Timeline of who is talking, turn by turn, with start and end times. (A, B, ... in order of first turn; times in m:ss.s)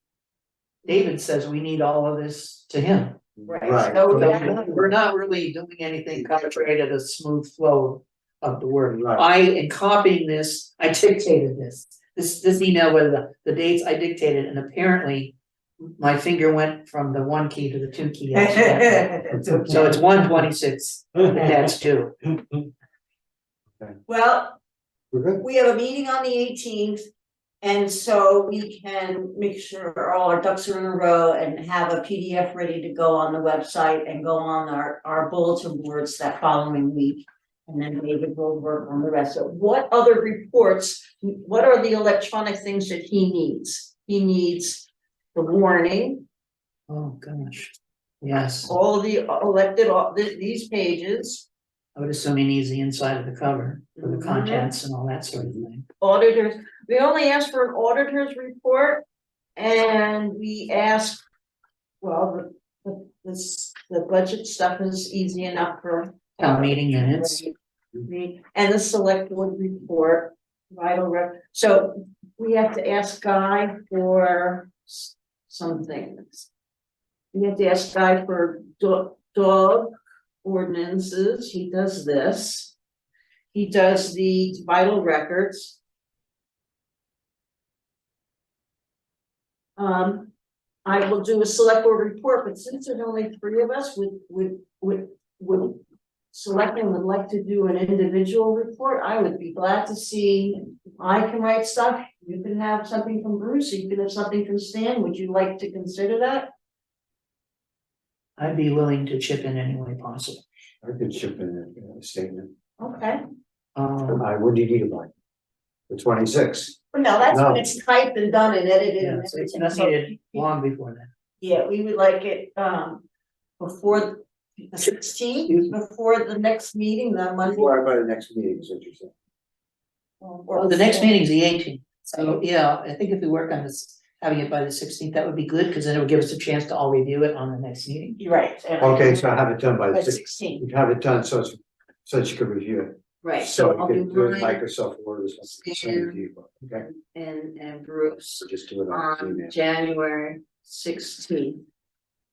0:00.8-0:03.2 A
0:03.4-0:05.0 B
0:03.4-0:04.8 C
0:04.1-0:19.1 A
0:06.1-0:06.6 B
0:08.9-0:09.2 B
0:18.3-0:19.8 C
0:19.3-0:20.5 B
0:19.6-0:22.2 A
0:21.2-0:21.7 B
0:22.2-0:22.7 B
0:24.1-0:24.6 C
0:25.1-0:25.4 B
0:25.4-0:27.0 C
0:27.6-0:46.2 C
0:46.9-0:48.7 A
0:48.6-0:51.4 C
0:51.9-0:55.8 A
0:54.0-0:54.7 C
0:56.0-0:59.0 C
0:59.6-1:01.2 C
1:02.0-1:16.5 C
1:06.4-1:07.4 A
1:17.3-1:22.7 C
1:23.5-1:25.8 C
1:29.8-1:30.3 C
1:30.8-1:35.8 C
1:36.3-1:46.5 C
1:48.4-1:50.4 A
1:50.8-1:52.5 B
1:52.8-1:53.2 C
1:53.8-1:54.2 A
1:54.1-1:55.1 B
1:55.9-1:56.8 B
1:56.9-2:00.5 C
1:57.3-1:57.7 B
1:59.0-2:01.1 A
2:01.4-2:03.0 C
2:03.6-2:07.7 C
2:07.4-2:09.1 B
2:10.2-2:11.2 C
2:10.5-2:18.2 A
2:18.2-2:19.4 C
2:18.8-2:26.9 B
2:19.9-2:20.6 C
2:23.2-2:24.6 C
2:25.4-2:26.2 C
2:26.8-2:31.6 C
2:28.2-2:29.6 B